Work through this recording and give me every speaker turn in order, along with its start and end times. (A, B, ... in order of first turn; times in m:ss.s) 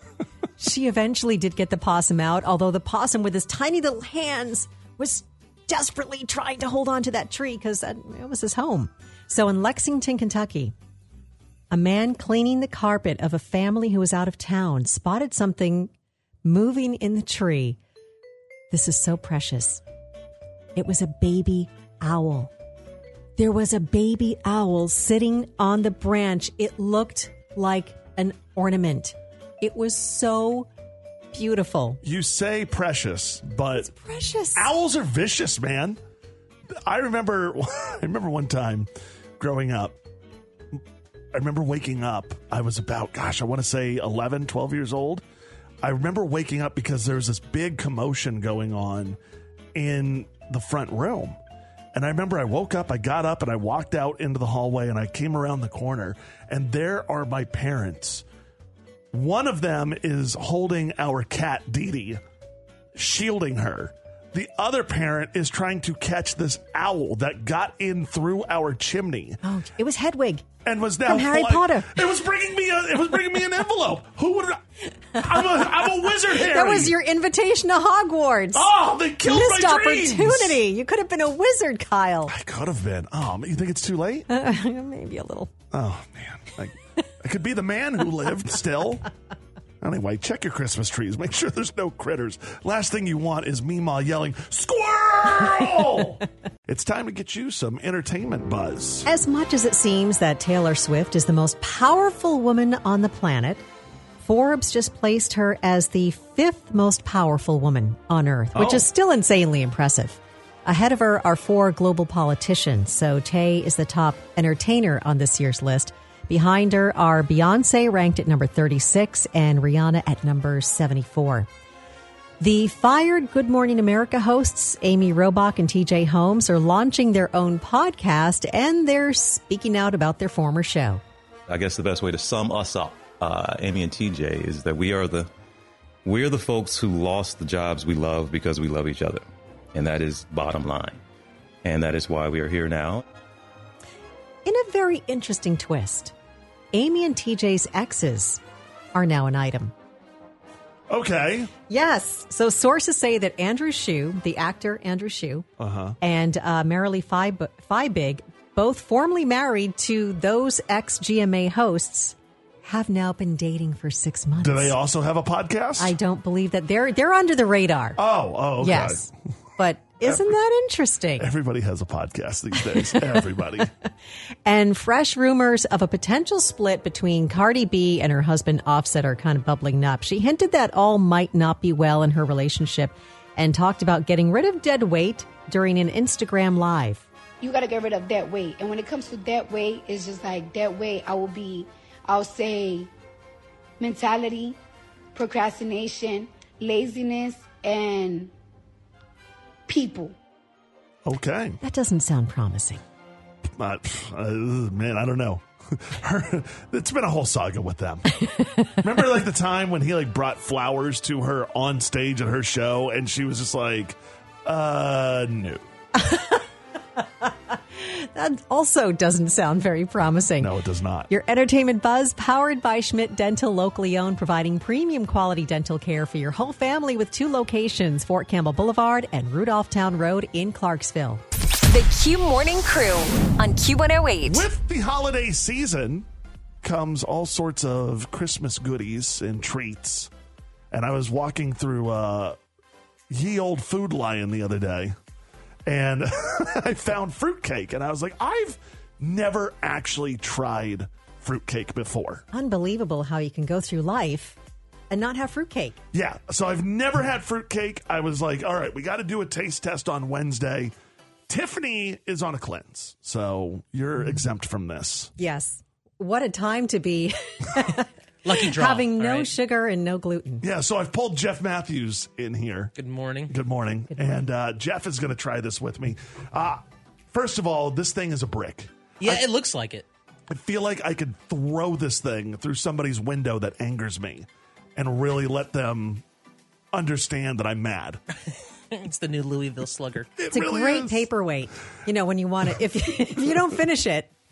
0:00.6-0:10.7 A
0:11.7-0:15.9 A
0:16.4-0:17.8 A
0:18.7-0:19.8 A
0:20.8-0:22.5 A
0:23.4-0:30.7 A
0:31.3-0:32.0 A
0:32.0-0:33.9 B
0:33.9-0:34.7 A
0:34.5-0:36.0 B
0:36.7-0:40.0 B
0:41.3-0:45.2 B
0:45.8-0:49.2 B
0:49.7-0:51.4 B
0:51.9-0:58.2 B
0:59.1-1:02.2 B
1:02.9-1:09.4 B
1:09.4-1:10.4 A
1:10.6-1:14.6 B
1:11.0-1:12.0 A
1:15.1-1:17.0 B
1:16.3-1:18.7 A
1:18.5-1:20.6 B
1:19.2-1:22.3 A
1:22.3-1:24.3 B
1:24.3-1:25.5 A
1:25.7-1:29.1 B
1:29.8-1:39.1 B
1:39.0-1:43.6 A
1:44.2-2:01.5 A
1:48.5-1:48.9 B
2:02.4-2:11.0 A
2:11.5-2:15.3 C
2:16.0-2:21.0 C
2:21.6-2:23.0 C
2:24.4-2:26.1 A
2:26.7-2:28.4 A
2:28.9-2:29.7 A
2:30.9-2:31.5 B
2:31.7-2:35.4 A
2:35.6-2:36.0 B
2:36.0-2:44.8 A
2:44.4-2:45.9 B
2:45.8-2:48.0 A
2:48.0-2:49.1 B
2:48.6-2:51.3 A
2:50.0-2:50.3 B
2:51.2-2:53.7 B
2:54.4-3:07.0 A
3:07.4-3:12.9 D
3:13.8-3:14.6 D
3:15.1-3:18.3 D
3:19.7-3:20.1 D
3:21.0-3:21.6 B
3:21.6-3:22.8 A
3:23.5-3:28.1 B
3:28.3-3:28.7 A
3:28.8-3:35.6 B
3:35.9-3:36.4 A
3:37.0-3:40.5 A
3:40.4-3:41.1 B
3:41.1-3:51.2 A
3:51.7-3:54.5 E
3:54.2-3:56.1 B
3:56.6-4:00.1 B
4:00.7-4:02.4 B
4:03.1-4:04.9 B
4:05.6-4:12.2 B
4:12.3-4:14.4 A
4:14.9-4:15.8 A
4:15.9-4:20.7 B
4:21.3-4:25.1 B
4:25.2-4:30.4 A
4:28.2-4:29.3 F
4:30.4-4:32.7 B
4:32.8-4:33.3 F
4:33.3-4:39.2 B
4:39.0-4:39.8 F
4:40.3-4:46.0 B
4:46.7-4:48.0 B
4:48.7-4:50.1 F
4:50.2-4:51.1 B
4:50.3-4:54.1 A